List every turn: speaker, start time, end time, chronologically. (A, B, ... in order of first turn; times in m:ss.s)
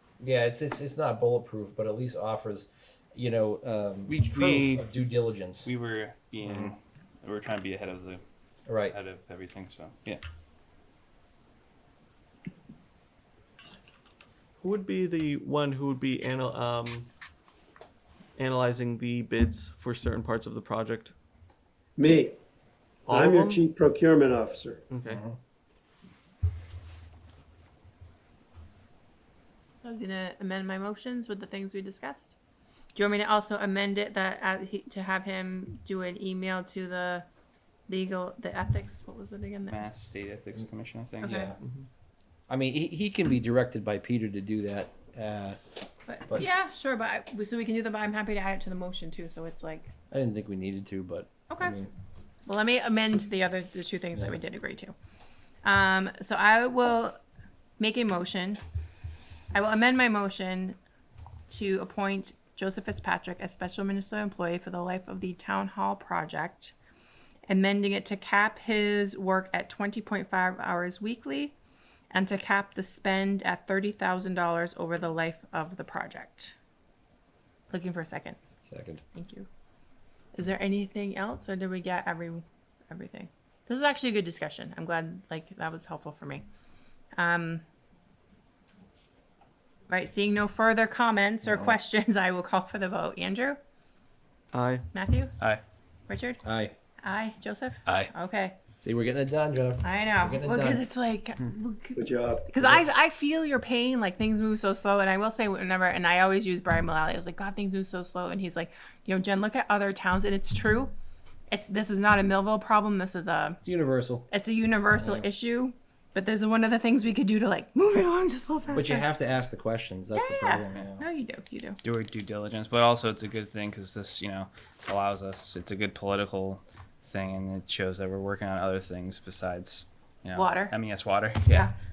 0:00.2-0:05.7 A
0:04.1-0:04.8 B
0:05.6-0:08.2 C
0:06.4-0:06.7 A
0:08.7-0:09.0 A
0:08.9-0:10.2 C
0:14.6-0:17.1 B
0:18.4-0:21.1 B
0:22.0-0:22.4 D
0:23.1-0:23.6 B
0:23.1-0:24.8 D
0:24.9-0:25.2 B
0:25.1-0:25.4 A
0:29.8-0:32.4 E
0:33.0-0:37.3 E
0:37.9-0:39.9 E
0:39.7-0:41.5 C
0:41.2-0:41.5 E
0:41.6-0:41.9 B
0:42.5-0:45.6 A
0:46.1-0:49.9 E
0:50.1-0:51.9 A
0:51.5-0:51.8 E
0:52.5-0:54.9 E
0:55.6-0:57.2 E
0:57.8-0:58.6 E
0:59.5-1:00.8 E
1:01.5-1:06.7 E
1:07.5-1:11.6 E
1:12.1-1:16.6 E
1:17.7-1:18.4 E
1:18.6-1:19.0 A
1:19.1-1:19.5 E
1:20.3-1:26.5 E
1:27.2-1:27.6 E
1:29.9-1:33.6 E
1:31.4-1:31.8 A
1:34.5-1:34.9 B
1:34.9-1:35.4 E
1:36.1-1:36.4 E
1:36.4-1:36.7 A
1:37.0-1:38.6 E
1:38.8-1:40.8 A
1:39.8-1:50.9 E
1:42.0-1:42.8 D
1:51.5-1:53.6 E
1:53.6-1:54.3 A
1:54.3-1:59.1 E
1:55.0-1:55.3 A
1:58.7-2:01.1 A
2:00.1-2:01.8 E
2:01.8-2:11.7 C
2:10.4-2:10.8 E
2:11.5-2:11.7 E